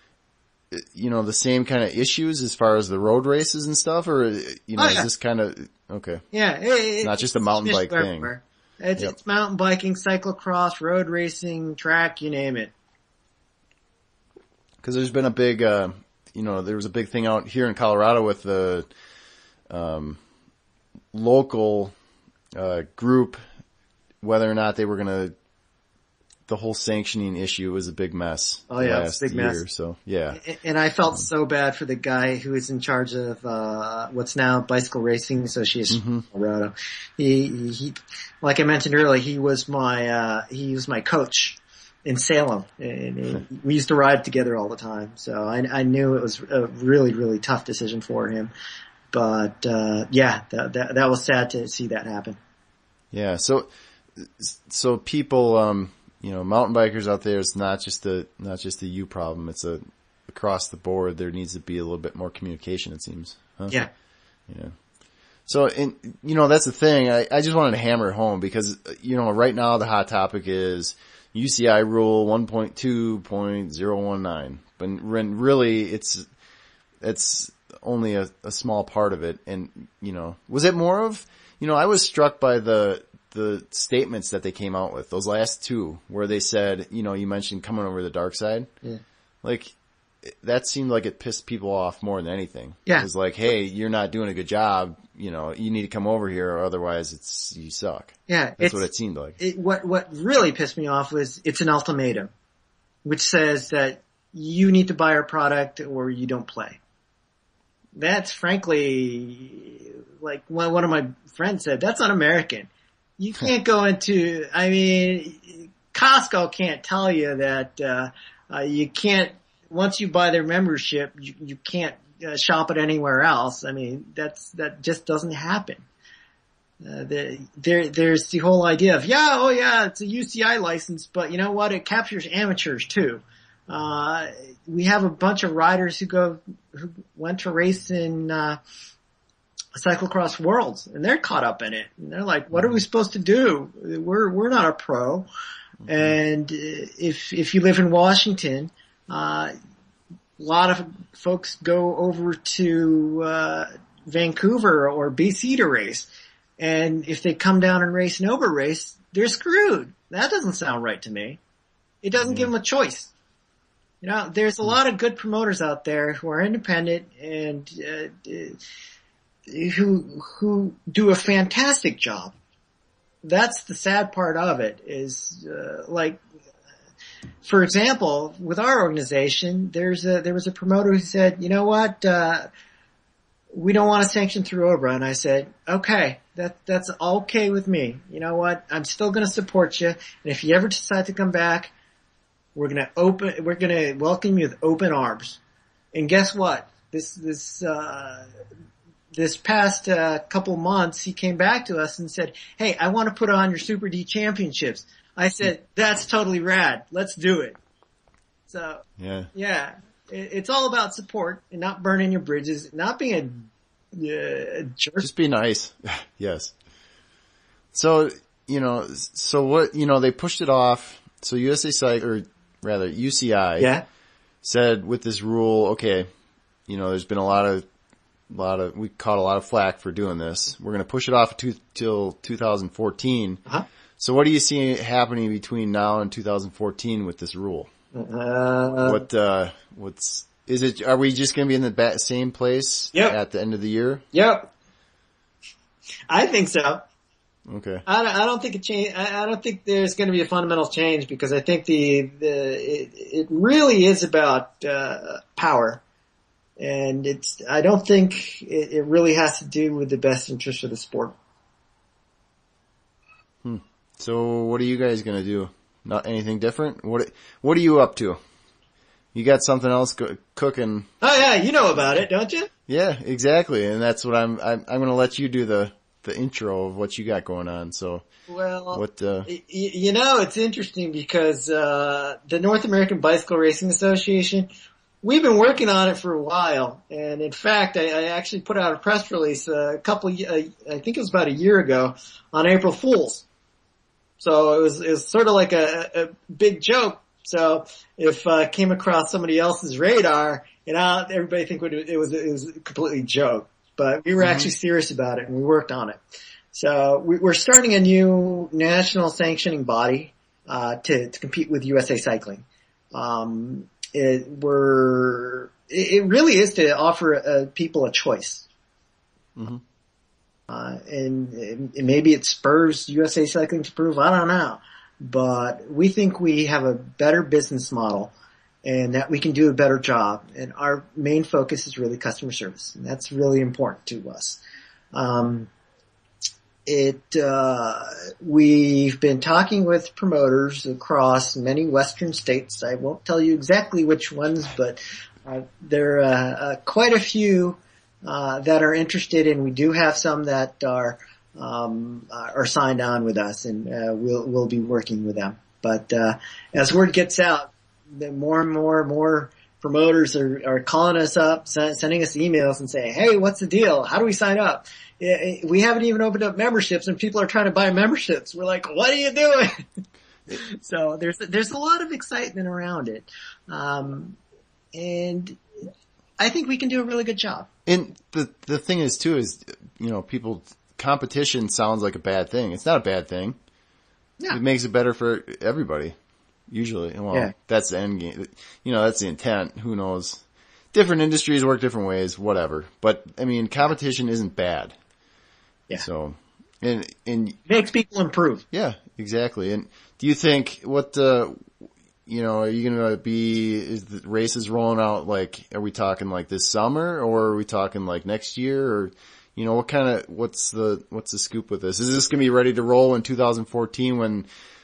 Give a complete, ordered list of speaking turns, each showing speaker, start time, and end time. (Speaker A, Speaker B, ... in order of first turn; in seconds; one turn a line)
Speaker A: 0.7-6.2
Speaker B: 4.8-5.1
Speaker B: 6.3-12.7
Speaker A: 7.0-8.3
Speaker A: 14.8-18.9
Speaker A: 19.7-20.2
Speaker A: 21.1-21.9
Speaker A: 22.6-23.4
Speaker A: 24.2-25.3
Speaker A: 26.5-30.4
Speaker B: 28.7-29.6
Speaker B: 30.4-48.5
Speaker A: 35.9-36.2
Speaker B: 49.1-52.4
Speaker A: 53.1-63.8
Speaker A: 64.5-64.7
Speaker A: 65.5-76.2
Speaker A: 77.0-88.7
Speaker A: 89.4-89.7
Speaker A: 90.2-99.4
Speaker B: 98.3-98.8
Speaker B: 99.4-102.3
Speaker B: 103.0-106.8
Speaker B: 108.0-125.8
Speaker B: 126.8-138.6
Speaker B: 139.8-145.3
Speaker A: 145.8-146.1
Speaker B: 145.9-149.5
Speaker B: 150.4-156.1
Speaker B: 156.6-161.4
Speaker B: 162.0-163.1
Speaker A: 162.2-162.5
Speaker B: 164.0-168.6
Speaker B: 169.5-172.3
Speaker B: 173.2-176.2
Speaker B: 177.4-182.5
Speaker B: 183.5-191.7
Speaker B: 192.5-195.4
Speaker B: 195.9-198.3
Speaker B: 199.1-207.6
Speaker B: 208.5-215.1
Speaker A: 209.0-209.3
Speaker A: 215.0-216.5
Speaker A: 217.7-223.7
Speaker B: 223.6-223.8
Speaker A: 224.4-226.1
Speaker A: 226.7-227.6
Speaker A: 228.3-233.4
Speaker A: 234.0-237.7
Speaker B: 237.9-239.0
Speaker A: 238.8-244.0
Speaker B: 244.1-244.5
Speaker B: 246.1-246.8
Speaker A: 247.5-247.8
Speaker B: 247.9-255.8
Speaker B: 256.6-261.1
Speaker A: 263.4-268.2
Speaker A: 269.1-270.9
Speaker B: 271.0-272.5
Speaker A: 272.7-278.0
Speaker B: 278.3-284.5
Speaker A: 278.7-279.3
Speaker B: 285.0-293.2
Speaker B: 294.2-306.0
Speaker A: 304.2-304.5
Speaker B: 306.5-318.5
Speaker A: 319.4-319.6
Speaker B: 320.5-328.1
Speaker B: 328.6-334.4
Speaker B: 334.9-335.5
Speaker B: 336.6-369.6
Speaker B: 370.3-374.2
Speaker B: 374.7-375.4
Speaker B: 376.2-377.5
Speaker A: 377.6-383.4
Speaker A: 384.3-385.9
Speaker A: 386.5-394.7
Speaker A: 395.8-397.4
Speaker B: 397.5-398.4
Speaker A: 398.5-401.4
Speaker A: 402.1-414.2